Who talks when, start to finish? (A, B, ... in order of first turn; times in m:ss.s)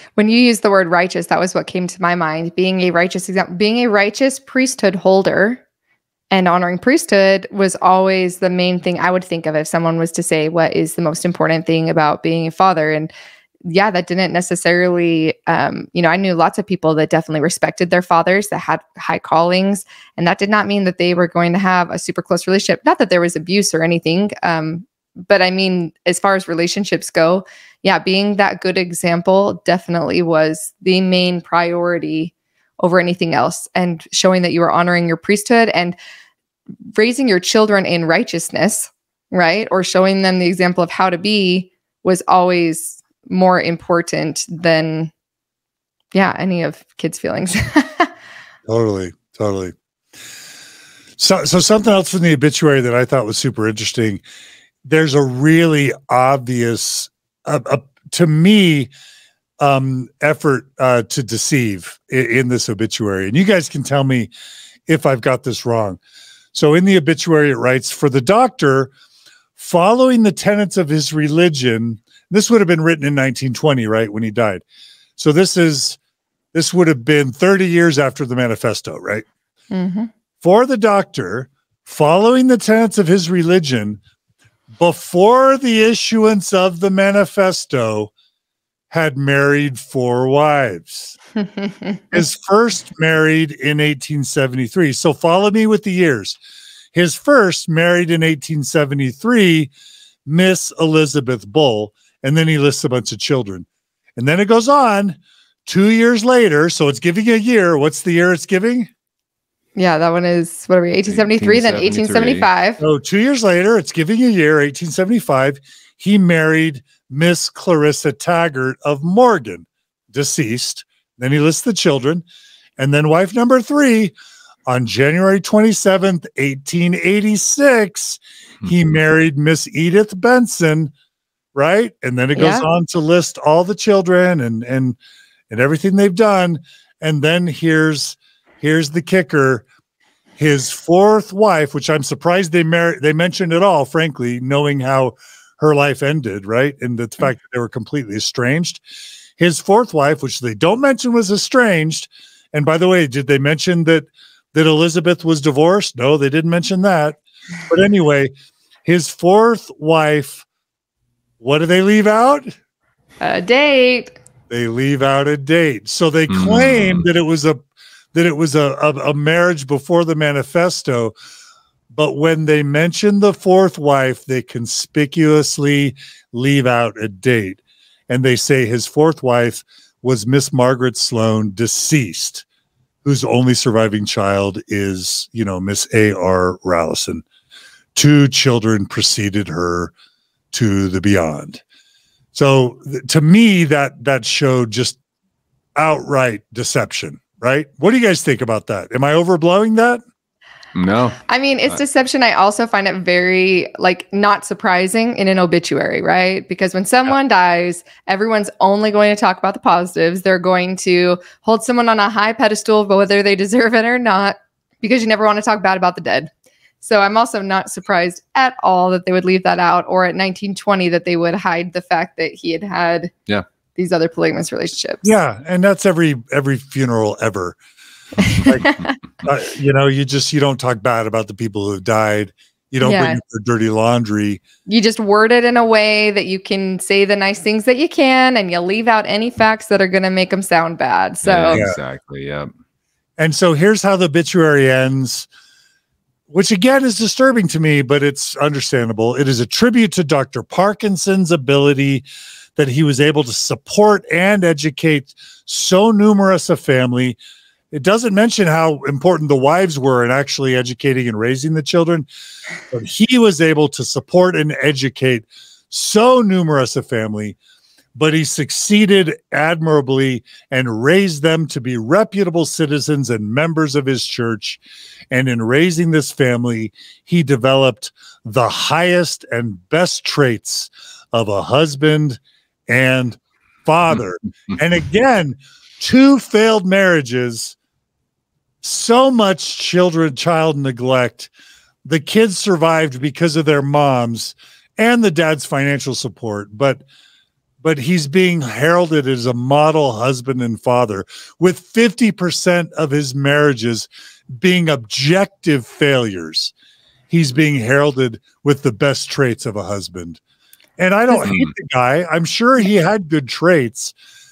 0:00.2-0:05.6 A
0:06.3-0:13.1 A
0:13.6-0:36.0 A
0:36.9-0:45.1 A
0:46.1-0:48.1 A
0:48.7-0:49.7 B
0:51.2-0:54.2 B
0:54.8-0:58.9 B
0:59.6-1:04.3 B
1:04.9-1:06.0 B
1:06.5-1:08.9 B
1:09.6-1:14.6 B
1:15.2-1:16.0 B
1:16.5-1:19.2 B
1:19.7-1:20.1 A
1:20.4-1:24.0 B
1:24.8-1:28.1 B
1:28.9-1:31.2 B
1:31.4-1:32.2 A
1:32.1-1:36.4 B
1:36.9-1:39.7 B
1:40.2-1:43.6 B
1:44.2-1:48.9 B
1:49.8-1:52.8 A
1:51.0-1:52.5 C
1:52.8-2:02.2 B
2:02.8-2:04.1 B
2:04.7-2:10.9 B
2:11.5-2:15.0 B
2:12.3-2:12.6 A
2:15.5-2:19.6 B
2:20.4-2:28.8 B
2:29.4-2:38.3 B
2:38.8-2:40.4 B
2:41.4-2:42.5 B
2:43.2-2:44.2 A
2:44.5-2:51.1 B
2:46.3-2:47.0 C
2:51.9-3:02.4 B
3:03.0-3:07.2 B
3:07.9-3:09.9 B
3:10.5-3:11.6 B
3:12.3-3:15.0 B
3:15.8-3:20.0 B
3:20.7-3:21.8 C
3:21.3-3:36.3 A
3:36.8-3:43.1 A
3:43.8-3:45.0 A
3:45.0-3:47.6 B
3:48.2-3:48.9 A
3:48.3-3:48.7 B
3:49.2-3:54.4 B
3:52.8-3:53.2 A
3:54.7-4:01.6 A
4:01.2-4:02.5 C
4:03.2-4:05.3 B
4:06.3-4:12.0 B
4:12.6-4:17.2 B
4:17.7-4:22.0 B
4:22.7-4:27.4 B
4:27.9-4:34.6 B
4:35.1-4:47.6 B
4:48.6-4:51.3 B
4:51.8-4:56.8 B
4:57.6-5:06.5 B
5:07.1-5:10.2 B
5:10.8-5:13.9 B
5:11.2-5:11.5 C